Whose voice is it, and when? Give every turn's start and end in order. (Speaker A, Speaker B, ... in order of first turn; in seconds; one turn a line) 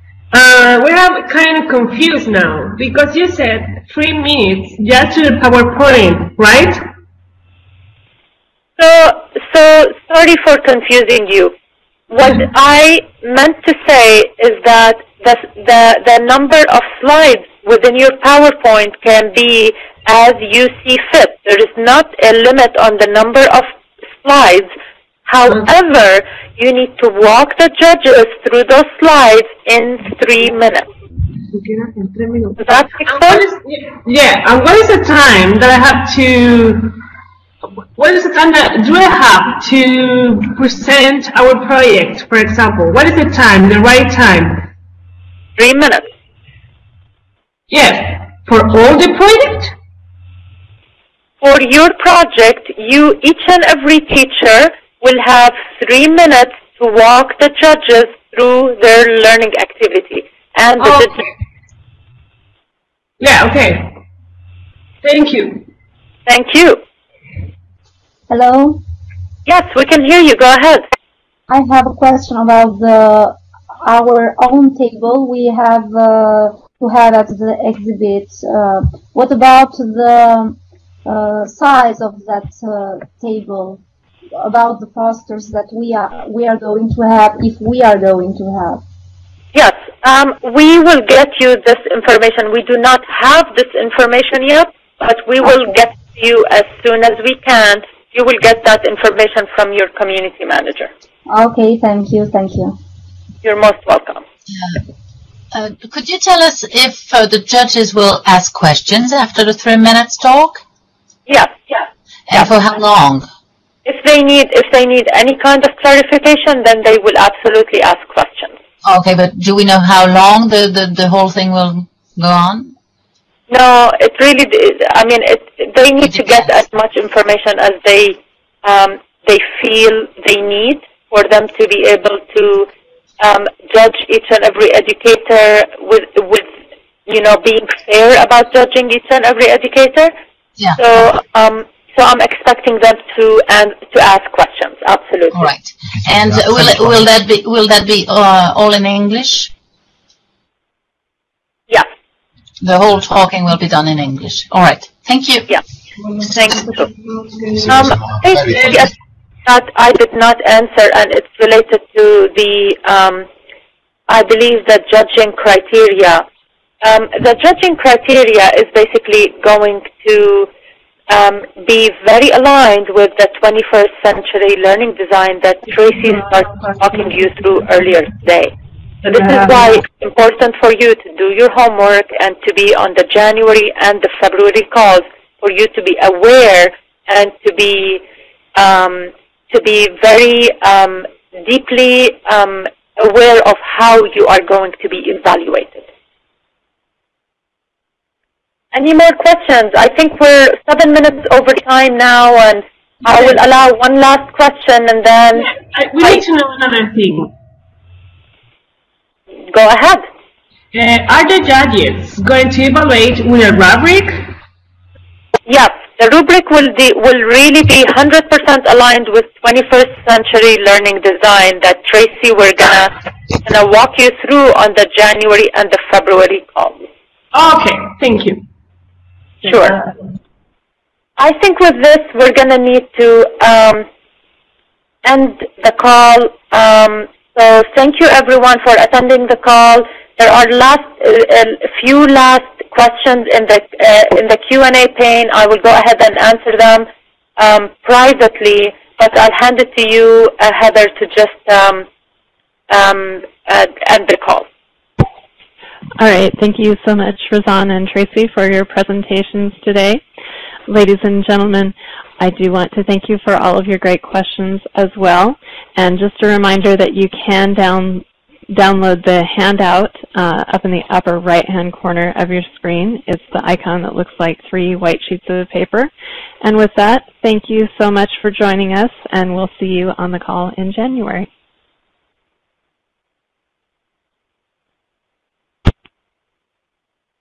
Speaker A: 0.3-6.8
Speaker B: 8.8-11.5
Speaker B: 12.1-23.7
Speaker B: 24.2-24.7
Speaker B: 25.3-30.9
Speaker A: 31.5-37.0
Speaker B: 32.6-33.5
Speaker A: 38.0-44.7
Speaker B: 45.6-46.1
Speaker A: 47.7-49.7
Speaker B: 51.4-61.2
Speaker A: 60.8-61.2
Speaker A: 63.2-64.0
Speaker A: 65.0-65.7
Speaker B: 66.3-66.8
Speaker C: 68.3-68.8
Speaker B: 69.5-70.8
Speaker C: 71.5-83.8
Speaker C: 84.4-88.8
Speaker B: 89.5-100.9
Speaker C: 101.3-102.8
Speaker B: 103.4-104.2
Speaker D: 104.5-104.8
Speaker D: 105.5-110.6
Speaker B: 111.3-112.5
Speaker D: 112.3-113.3
Speaker B: 113.9-118.5
Speaker D: 118.8-122.8
Speaker B: 123.5-132.7
Speaker D: 126.0-126.5
Speaker B: 133.2-136.5
Speaker B: 137.1-140.1
Speaker B: 140.8-145.5
Speaker D: 145.3-149.5
Speaker D: 152.6-155.5
Speaker B: 156.3-156.9
Speaker A: 157.3-157.8
Speaker B: 157.7-158.9
Speaker A: 158.5-158.8
Speaker B: 159.5-163.3
Speaker B: 164.1-166.2
Speaker B: 166.8-170.5
Speaker B: 171.1-178.5
Speaker B: 179.0-188.0
Speaker B: 188.6-195.9
Speaker B: 198.7-206.2
Speaker A: 205.3-207.3
Speaker B: 209.5-210.0
Speaker A: 210.7-214.3
Speaker B: 215.5-226.8
Speaker A: 227.3-228.4
Speaker B: 229.4-229.8
Speaker B: 231.2-233.9
Speaker B: 235.1-246.9
Speaker B: 247.4-251.8
Speaker B: 252.7-254.5
Speaker E: 256.0-260.0
Speaker E: 260.7-281.3